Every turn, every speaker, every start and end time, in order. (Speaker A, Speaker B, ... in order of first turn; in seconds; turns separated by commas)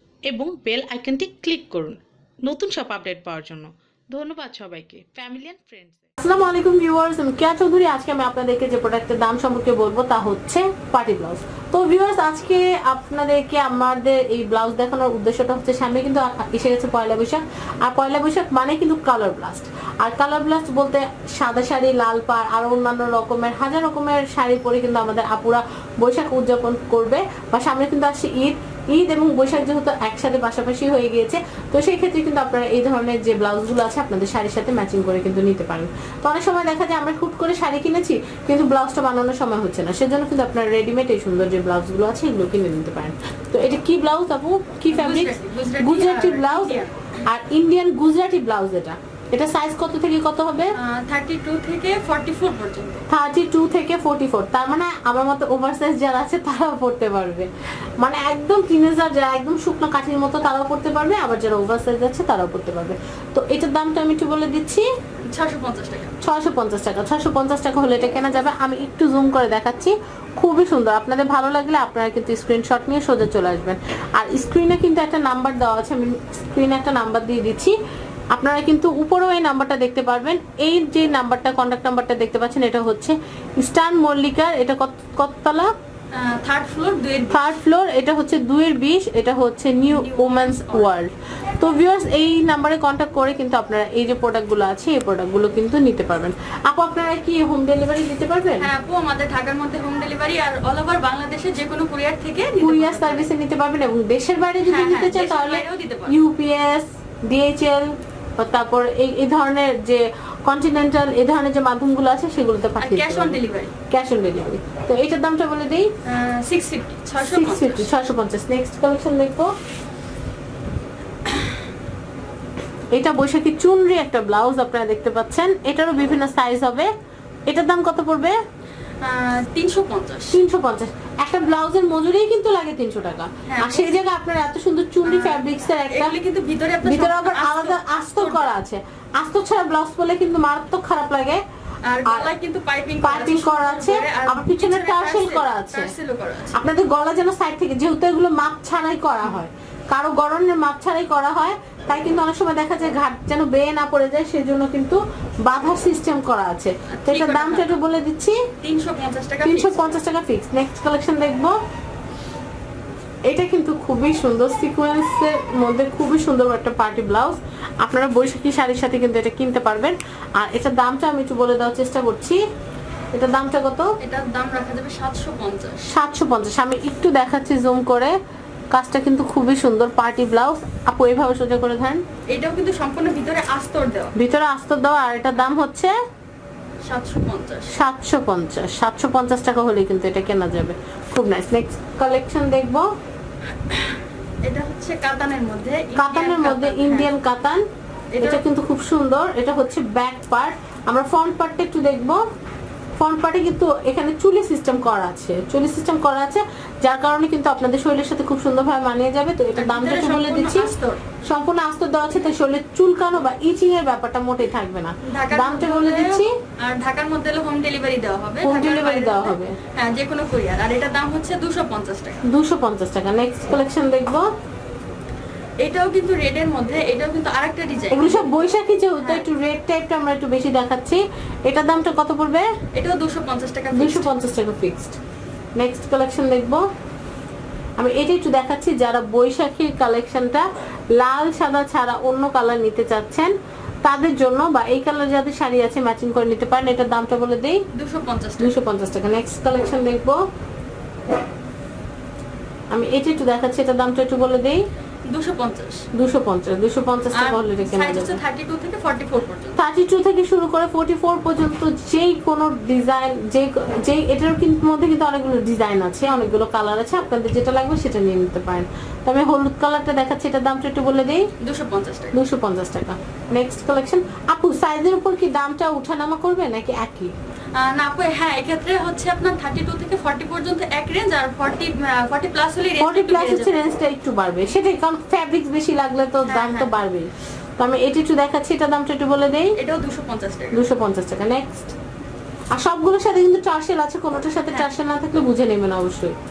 Speaker A: 0.3-1.9, Speaker A: 2.5-6.0, Speaker B: 6.2-50.8, Speaker C: 44.9-47.2, Speaker C: 50.8-53.0, Speaker B: 53.1-57.5, Speaker B: 58.0-64.8, Speaker C: 65.3-66.2, Speaker B: 66.2-77.8, Speaker B: 78.3-85.7, Speaker C: 86.1-87.4, Speaker B: 87.3-98.7, Speaker C: 89.9-91.0, Speaker C: 98.6-103.3, Speaker B: 102.6-115.9, Speaker C: 104.7-106.2, Speaker C: 112.8-113.7, Speaker C: 116.1-118.0, Speaker B: 117.2-119.5, Speaker C: 121.3-121.6, Speaker B: 122.9-126.9, Speaker B: 127.5-128.4, Speaker C: 129.0-130.4, Speaker B: 130.3-136.2, Speaker C: 133.5-134.0, Speaker C: 135.1-138.5, Speaker B: 136.8-141.4, Speaker C: 141.8-146.6, Speaker B: 143.0-145.9, Speaker B: 146.5-158.4, Speaker C: 156.9-157.8, Speaker C: 158.6-160.0, Speaker B: 159.4-161.5, Speaker B: 163.3-172.4, Speaker B: 173.2-173.9, Speaker C: 174.0-175.9, Speaker B: 175.9-178.1, Speaker B: 178.7-182.0, Speaker C: 182.3-184.1, Speaker B: 184.2-185.9, Speaker C: 186.9-187.7, Speaker B: 187.7-192.9, Speaker C: 193.7-197.1, Speaker B: 195.9-197.6, Speaker C: 198.1-198.4, Speaker B: 198.2-202.2, Speaker B: 203.0-210.7, Speaker C: 209.6-211.0, Speaker B: 211.2-216.3, Speaker C: 215.1-222.2, Speaker B: 218.4-219.6, Speaker B: 222.3-224.2, Speaker C: 225.6-228.3, Speaker B: 227.9-232.5, Speaker C: 232.8-234.2, Speaker B: 233.7-235.0, Speaker B: 235.6-236.6, Speaker B: 237.8-243.3, Speaker B: 243.8-247.6, Speaker C: 247.8-248.6, Speaker B: 248.4-250.2, Speaker B: 252.7-254.6, Speaker C: 255.1-255.8, Speaker B: 256.0-258.2, Speaker C: 257.1-259.6, Speaker B: 259.6-271.3, Speaker C: 271.4-272.2, Speaker B: 272.1-277.1, Speaker C: 277.5-283.6, Speaker B: 282.8-289.6, Speaker C: 286.2-286.7, Speaker C: 289.6-290.6, Speaker B: 290.5-291.8, Speaker B: 292.5-296.1